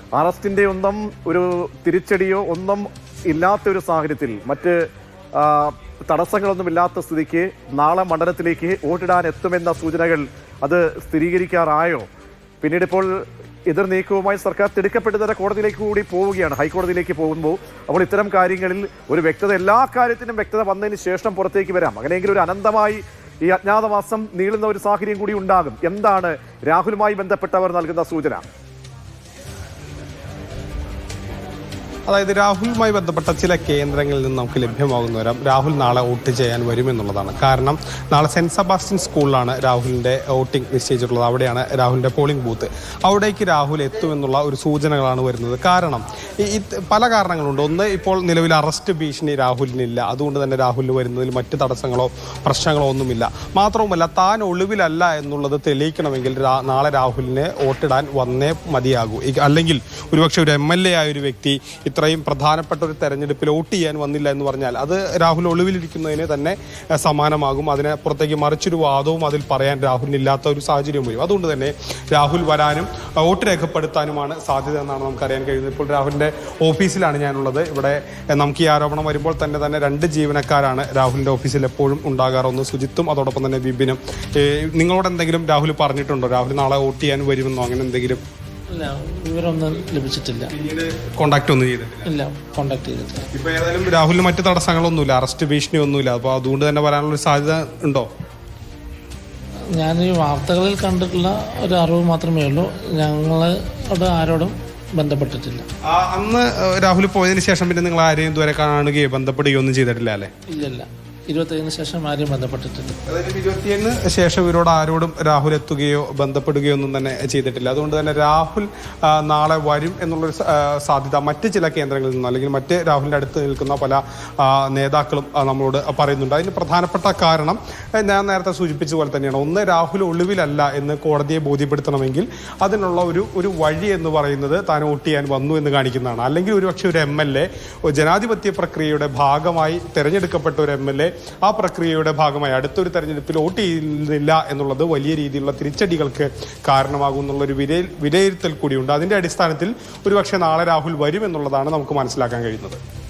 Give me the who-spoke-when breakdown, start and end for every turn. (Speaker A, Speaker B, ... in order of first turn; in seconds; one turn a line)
Speaker A: 0.1-12.1
Speaker A: 12.6-28.4
Speaker B: 32.1-88.2
Speaker C: 88.7-90.5
Speaker B: 90.5-92.1
Speaker C: 92.0-93.3
Speaker B: 93.3-98.0
Speaker C: 99.7-105.6
Speaker B: 105.9-110.3
Speaker C: 110.5-113.0
Speaker B: 113.0-152.8